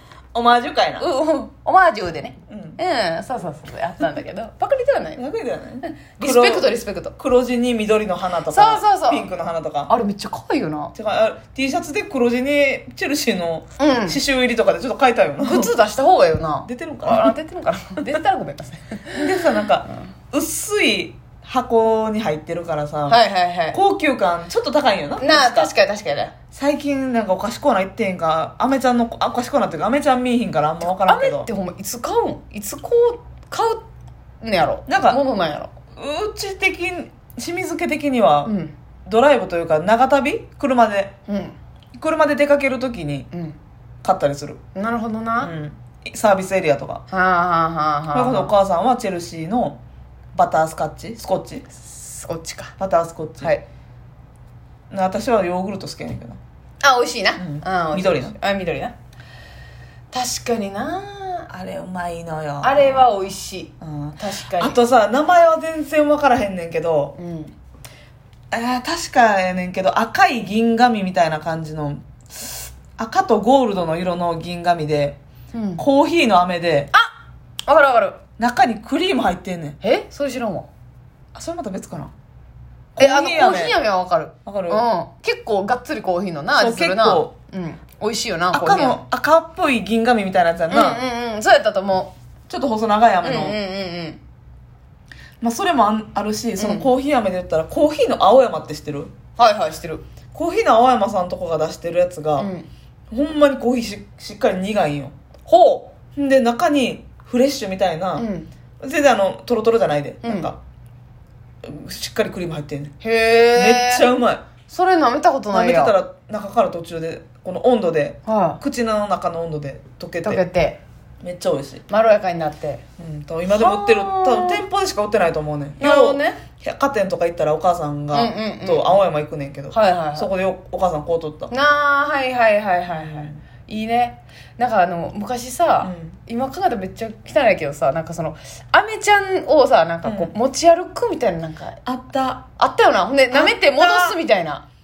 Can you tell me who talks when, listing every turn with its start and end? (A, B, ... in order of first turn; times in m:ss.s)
0:00.3-0:01.1 A
0:01.0-0:05.2 B
0:02.5-0:02.8 A
0:05.2-0:09.9 A
0:05.8-0:07.2 B
0:08.5-0:09.3 B
0:09.9-0:10.9 B
0:11.0-0:15.7 A
0:13.8-0:14.2 B
0:15.4-0:19.3 B
0:16.6-0:17.4 A
0:19.1-0:25.7 A
0:23.1-0:23.8 B
0:25.2-0:26.3 B
0:26.5-0:31.5 A
0:30.8-0:33.8 B
0:34.4-0:35.7 B
0:34.9-0:35.2 A
0:36.0-0:38.5 A
0:38.4-0:38.7 B
0:39.0-0:41.1 A
0:41.3-0:41.6 B
0:42.0-0:43.3 A
0:43.3-0:43.6 B
0:44.0-0:44.6 A
0:44.8-0:45.5 B
0:45.4-0:47.0 A
0:47.1-0:48.5 B
0:48.1-0:49.8 A
0:50.3-0:51.7 A
0:51.8-0:52.7 B
0:52.8-0:53.5 A
0:54.9-0:56.4 A
0:56.8-0:58.9 B
0:57.4-0:58.4 A
1:00.1-1:01.5 B
1:01.5-1:03.0 A
1:02.6-1:04.8 B
1:03.8-1:07.2 A
1:07.2-1:07.5 B
1:08.5-1:15.2 A
1:15.5-1:15.8 B
1:15.8-1:16.9 A
1:17.7-1:18.2 B
1:18.4-1:19.8 A
1:19.8-1:20.7 B
1:21.3-1:22.1 A
1:23.0-1:23.8 A
1:23.0-1:29.0 B
1:24.4-1:24.8 A
1:26.6-1:27.3 A
1:28.5-1:31.0 A
1:30.7-1:32.1 B
1:32.5-1:33.6 A
1:33.2-1:34.2 B
1:35.4-1:39.1 A
1:36.6-1:36.9 B
1:39.4-1:40.0 B
1:40.3-1:42.5 A
1:42.4-1:42.7 B
1:43.1-1:45.1 A
1:45.5-1:45.9 B
1:46.2-1:48.3 A
1:48.2-1:48.5 B
1:48.8-1:50.6 A
1:50.2-1:50.5 B
1:51.6-1:53.0 A
1:53.0-1:54.1 B
1:53.5-1:54.4 A
1:54.7-1:56.0 B
1:55.5-2:00.4 A
1:58.3-1:58.6 B
2:00.2-2:00.8 B
2:01.2-2:01.8 A
2:01.9-2:02.8 B
2:03.0-2:11.5 A
2:03.5-2:04.6 B
2:05.8-2:06.4 B
2:08.1-2:09.0 B
2:09.7-2:10.3 B
2:11.5-2:21.8 B
2:12.9-2:13.4 A
2:15.8-2:16.2 A
2:20.0-2:20.3 A
2:21.8-2:22.5 A
2:22.6-2:24.6 B
2:23.3-2:24.2 A